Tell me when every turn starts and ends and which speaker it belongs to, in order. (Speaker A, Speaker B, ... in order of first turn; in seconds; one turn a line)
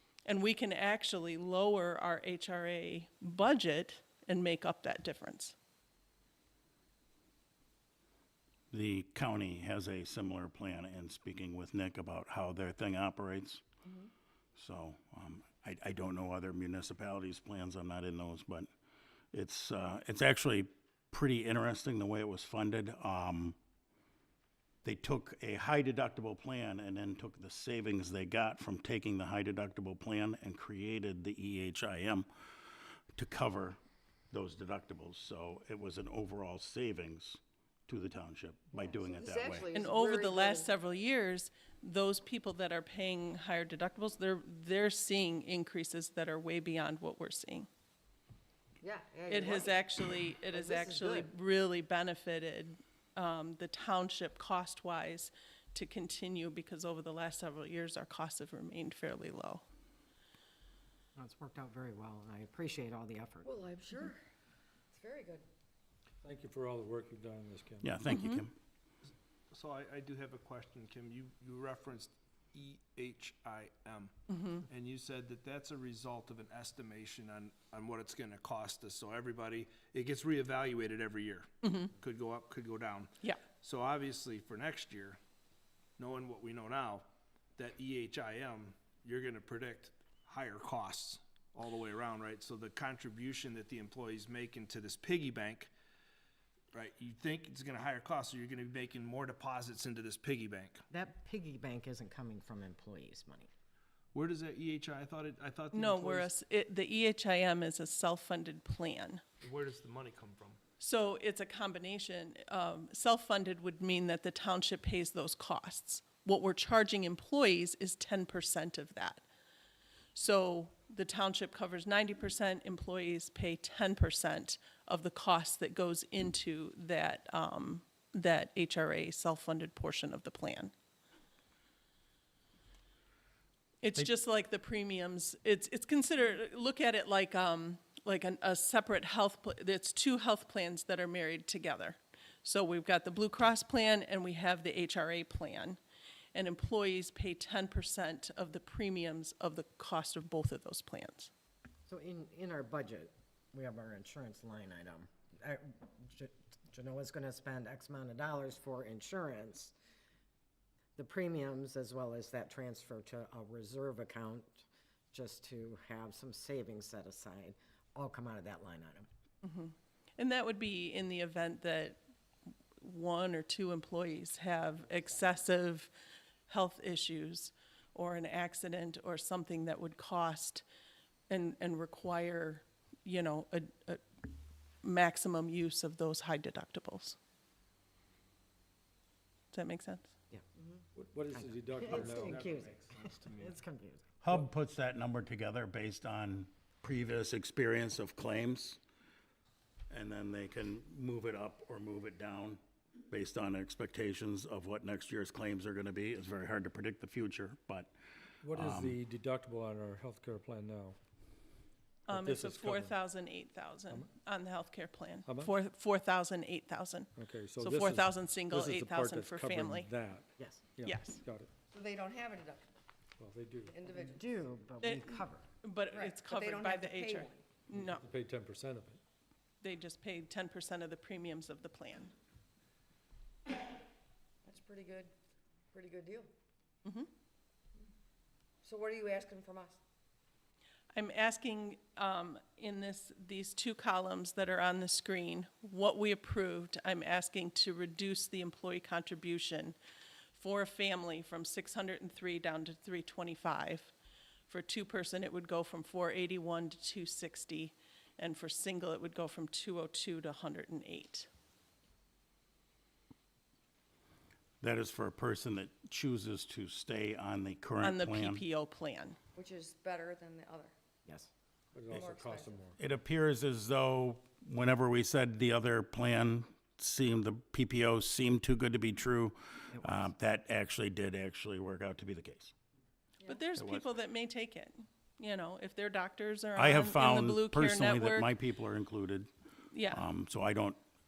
Speaker A: 0.3-5.5
Speaker B: 8.7-13.6
Speaker B: 14.6-18.7
Speaker B: 19.3-23.6
Speaker B: 24.8-32.2
Speaker B: 33.1-33.8
Speaker B: 34.3-39.7
Speaker C: 38.7-40.7
Speaker A: 39.7-47.7
Speaker C: 48.8-49.8
Speaker A: 49.3-59.6
Speaker C: 50.5-51.3
Speaker D: 61.1-63.5
Speaker C: 63.4-64.2
Speaker C: 64.9-65.4
Speaker E: 66.2-67.9
Speaker B: 67.8-68.5
Speaker A: 68.1-68.4
Speaker F: 69.1-85.2
Speaker A: 74.3-74.6
Speaker A: 81.6-81.9
Speaker F: 86.0-87.0
Speaker F: 87.6-95.7
Speaker F: 96.7-100.8
Speaker D: 100.9-103.5
Speaker F: 104.1-106.3
Speaker A: 105.7-109.2
Speaker F: 109.4-110.6
Speaker A: 110.8-119.2
Speaker A: 120.1-130.7
Speaker A: 133.8-145.8
Speaker A: 146.3-151.3
Speaker D: 151.9-159.7
Speaker D: 161.0-169.1
Speaker A: 169.4-172.0
Speaker A: 172.8-175.9
Speaker A: 176.5-180.6
Speaker A: 181.3-184.0
Speaker A: 184.8-187.2
Speaker A: 189.5-190.1
Speaker E: 190.9-192.4
Speaker D: 191.3-194.1
Speaker F: 191.9-193.6
Speaker B: 194.2-198.8
Speaker B: 199.9-207.9
Speaker E: 208.4-211.0
Speaker B: 208.5-209.0
Speaker E: 212.1-212.9
Speaker A: 212.1-219.9
Speaker E: 215.2-215.5
Speaker E: 217.2-221.5
Speaker D: 220.4-220.6
Speaker A: 220.8-221.2
Speaker C: 221.7-222.6
Speaker E: 223.2-223.7
Speaker C: 223.7-224.3
Speaker D: 223.9-225.4
Speaker A: 224.8-228.0
Speaker C: 225.9-227.4
Speaker E: 227.7-229.0
Speaker A: 229.6-232.1
Speaker C: 234.4-235.1
Speaker C: 235.7-236.3
Speaker C: 238.6-239.8
Speaker A: 240.9-249.8
Speaker A: 250.3-253.9
Speaker A: 254.5-261.3
Speaker B: 264.6-268.4
Speaker A: 267.8-269.2
Speaker C: 269.3-270.7
Speaker D: 271.0-271.3
Speaker E: 271.7-272.8
Speaker C: 271.9-272.7
Speaker B: 272.8-282.5
Speaker D: 279.7-280.1
Speaker A: 283.2-288.3
Speaker B: 283.6-283.9
Speaker B: 286.6-289.3
Speaker A: 289.7-290.0
Speaker B: 289.9-290.8